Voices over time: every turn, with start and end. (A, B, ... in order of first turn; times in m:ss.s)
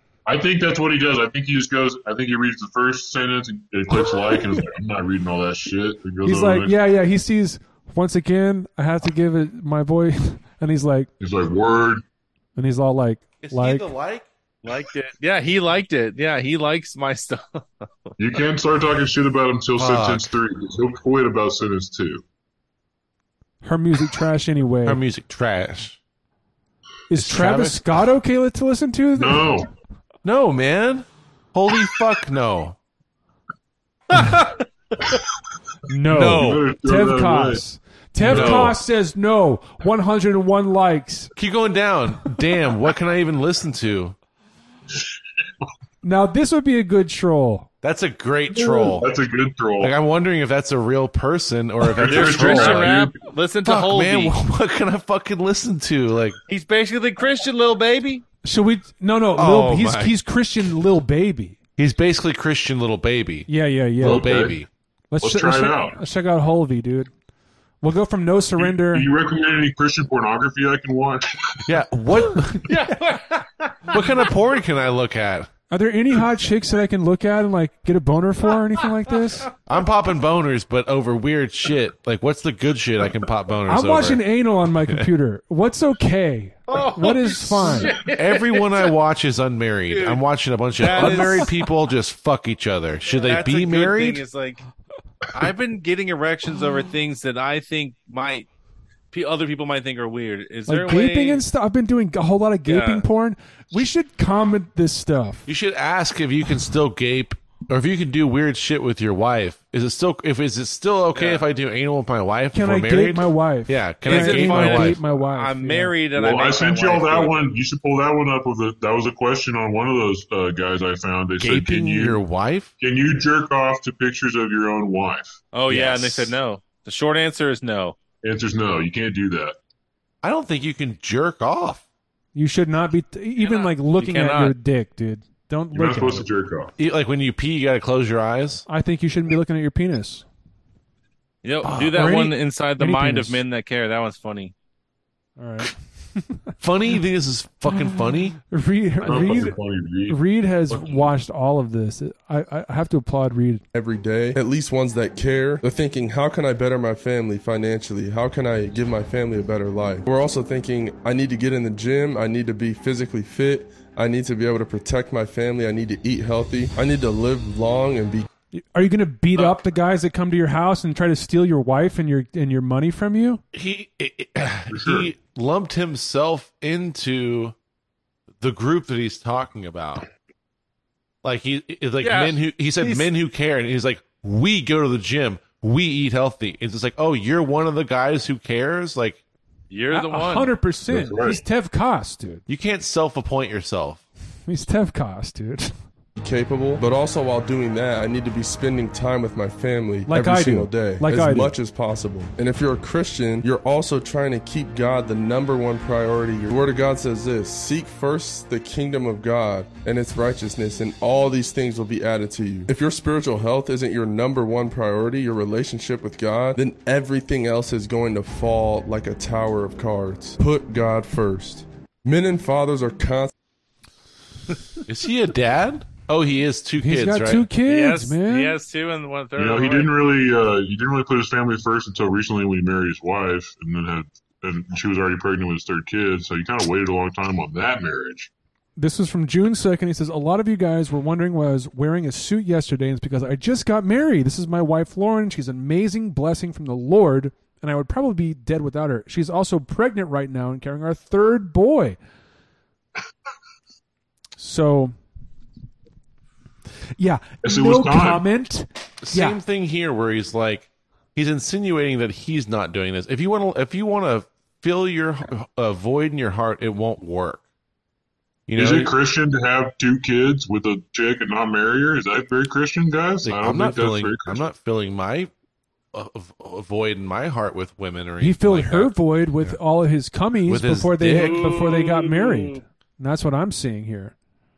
0:00.3-0:06.8 A
0:06.2-0:11.1 B
0:11.2-0:12.0 A
0:12.6-0:13.9 B
0:13.4-0:14.3 C
0:14.6-0:18.1 D
0:18.2-0:22.2 A
0:19.8-0:20.3 C
0:23.6-0:25.0 B
0:24.8-0:26.0 C
0:27.1-0:29.6 B
0:27.2-0:28.1 C
0:29.2-0:29.7 A
0:30.2-0:32.8 C
0:35.9-0:41.3 B
0:36.1-0:36.7 C
0:36.4-0:37.6 A
0:38.2-0:38.7 A
0:38.2-0:38.8 C
0:41.4-0:44.2 C
0:46.0-0:47.7 B
0:47.8-0:49.1 C
0:48.5-0:50.0 A
0:49.8-0:53.0 C
0:51.9-0:53.1 A
0:52.0-0:54.4 D
0:53.6-0:56.4 C
0:56.5-0:58.2 D
0:58.4-1:01.6 B
0:59.4-1:00.2 C
1:01.8-1:04.7 C
1:03.5-1:04.4 B
1:04.0-1:04.6 A
1:05.1-1:07.1 B
1:05.2-1:06.0 A
1:07.8-1:09.1 B
1:08.6-1:11.6 A
1:11.6-1:12.7 C
1:12.7-1:14.0 D
1:13.9-1:15.5 C
1:15.7-1:19.6 B
1:19.6-1:24.2 C
1:23.7-1:27.9 B
1:26.7-1:28.9 D
1:28.1-1:34.2 C
1:29.9-1:30.2 D
1:30.8-1:31.5 D
1:31.0-1:31.3 B
1:33.1-1:34.6 D
1:35.3-1:38.5 D
1:39.1-1:41.4 D
1:40.7-1:45.4 B
1:42.7-1:43.1 D
1:45.5-1:55.0 C
1:51.1-1:51.4 D
1:52.5-1:56.0 B
1:54.1-1:57.5 D
1:56.2-2:02.2 A
2:01.4-2:02.7 C
2:02.8-2:05.4 A
2:05.5-2:08.0 D
2:05.7-2:06.4 C
2:08.2-2:09.6 A
2:10.2-2:11.8 C
2:12.4-2:16.3 B
2:13.4-2:14.6 D
2:15.7-2:16.7 A
2:16.8-2:18.6 C
2:18.7-2:20.2 B
2:21.4-2:24.5 D
2:21.6-2:22.2 C
2:21.9-2:23.4 B
2:25.4-2:26.5 B
2:26.6-2:28.4 C
2:28.5-2:33.6 B
2:29.0-2:29.4 D
2:29.0-2:31.1 A
2:33.7-2:48.3 E
2:48.6-2:53.4 B
2:49.4-2:49.6 D
2:53.5-2:57.6 C
2:54.7-2:55.1 A
2:58.4-3:00.1 C
3:01.2-3:09.2 C
3:02.0-3:03.1 D
3:09.7-3:10.5 D
3:09.9-3:12.4 B
3:10.9-3:11.4 A
3:12.5-3:14.0 C
3:14.5-3:15.7 B
3:16.2-3:43.3 E
3:20.1-3:21.5 B
3:44.9-3:47.5 C
3:46.8-3:48.6 B
3:47.7-3:49.9 D
3:49.4-3:58.3 A
3:58.8-4:12.0 B
4:14.4-4:15.0 B
4:17.0-4:19.4 B
4:17.4-4:18.2 A
4:19.0-4:27.4 C
4:28.5-4:28.9 C
4:28.6-4:34.5 A
4:33.2-4:35.3 C
4:35.9-4:39.6 C
4:38.2-4:44.1 B
4:40.5-4:41.6 C
4:41.2-4:42.6 D